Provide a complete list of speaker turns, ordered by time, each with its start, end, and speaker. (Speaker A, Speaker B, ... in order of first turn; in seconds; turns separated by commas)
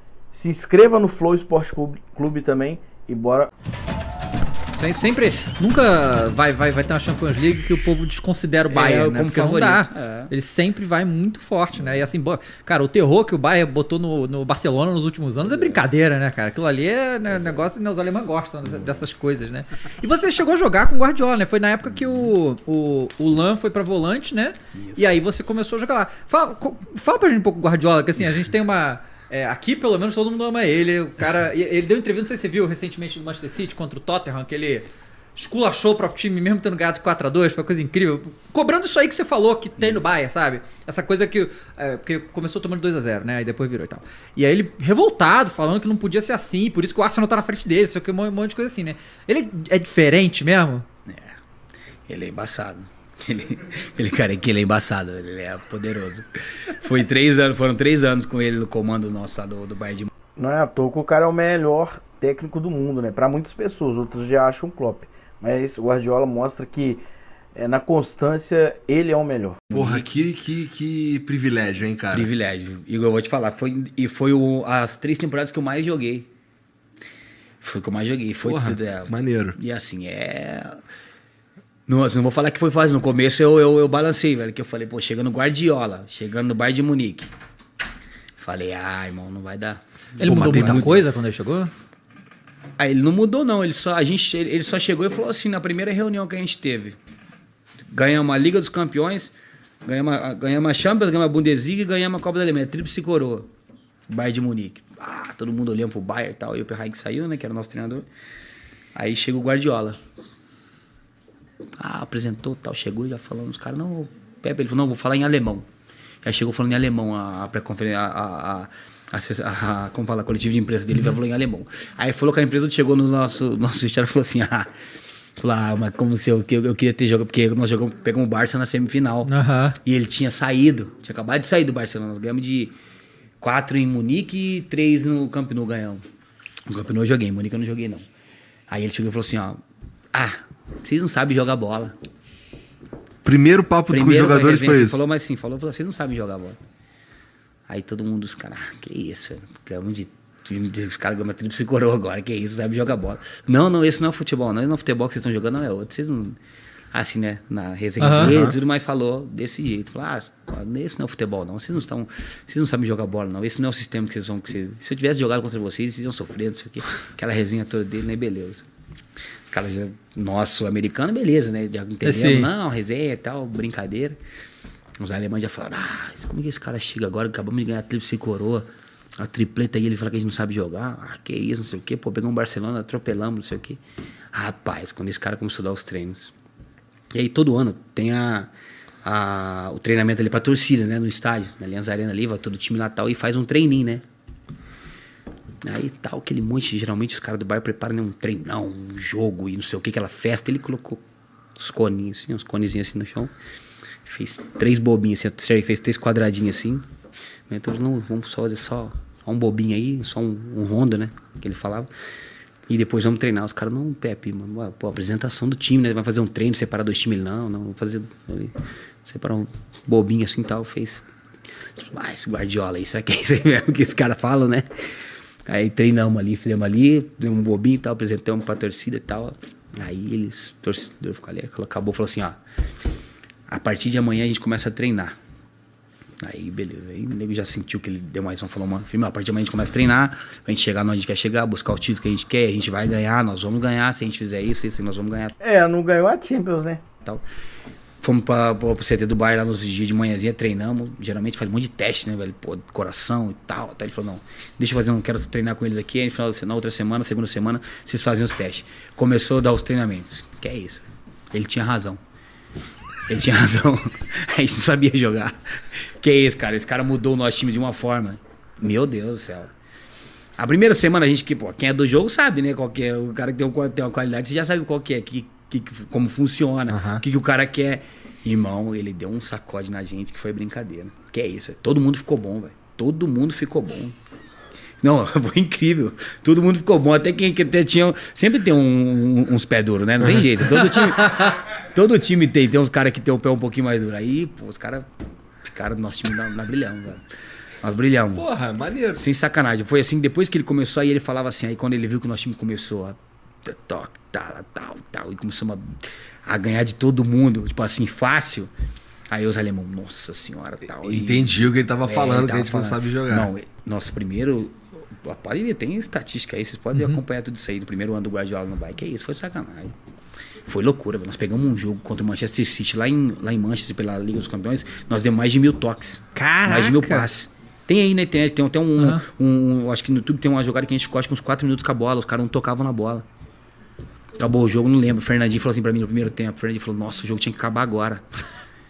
Speaker A: 0.3-3.5, Speaker B: 4.8-50.9, Speaker C: 8.7-10.3, Speaker C: 24.8-25.1, Speaker C: 39.8-40.0, Speaker C: 51.1-51.4, Speaker C: 52.1-60.1, Speaker A: 60.4-67.0, Speaker A: 67.6-69.6, Speaker C: 69.7-70.0, Speaker D: 69.7-72.3, Speaker C: 72.1-76.3, Speaker C: 77.6-80.8, Speaker D: 78.4-79.6, Speaker C: 81.9-87.3, Speaker C: 88.4-90.9, Speaker B: 90.2-91.7, Speaker D: 90.2-90.9, Speaker C: 92.8-97.0, Speaker C: 97.9-99.3, Speaker C: 99.9-103.5, Speaker C: 104.1-108.1, Speaker C: 109.0-110.0, Speaker C: 111.8-115.7, Speaker C: 116.2-124.7, Speaker C: 125.4-129.3, Speaker B: 129.3-129.8, Speaker C: 129.8-132.7, Speaker C: 133.4-136.0, Speaker C: 136.7-138.0, Speaker C: 138.7-139.6, Speaker C: 140.1-141.9, Speaker D: 143.2-145.0, Speaker C: 143.9-146.6, Speaker C: 147.7-156.4, Speaker C: 156.9-168.7, Speaker B: 158.0-158.3, Speaker D: 158.2-158.6, Speaker C: 169.5-174.2, Speaker B: 172.0-172.5, Speaker C: 175.0-178.7, Speaker C: 179.2-183.8, Speaker C: 184.3-186.3, Speaker C: 187.1-188.5, Speaker C: 189.0-194.0, Speaker C: 195.6-201.0, Speaker C: 201.6-203.3, Speaker C: 204.1-206.9, Speaker C: 207.5-211.9, Speaker C: 212.7-218.5, Speaker C: 219.1-221.1, Speaker C: 221.8-224.7, Speaker C: 225.5-232.4, Speaker C: 233.5-235.1, Speaker C: 236.2-245.3, Speaker A: 245.4-246.8, Speaker C: 248.0-262.0, Speaker C: 263.1-265.4, Speaker C: 266.0-269.5, Speaker C: 270.4-283.9, Speaker D: 276.7-277.0, Speaker C: 284.8-294.9, Speaker C: 295.5-297.0, Speaker C: 297.6-298.2, Speaker D: 298.1-299.0, Speaker C: 298.9-308.5, Speaker C: 309.1-319.7, Speaker D: 310.8-313.3, Speaker B: 316.8-317.0, Speaker C: 320.5-333.0, Speaker B: 326.1-327.1, Speaker B: 328.8-329.1, Speaker C: 334.2-338.0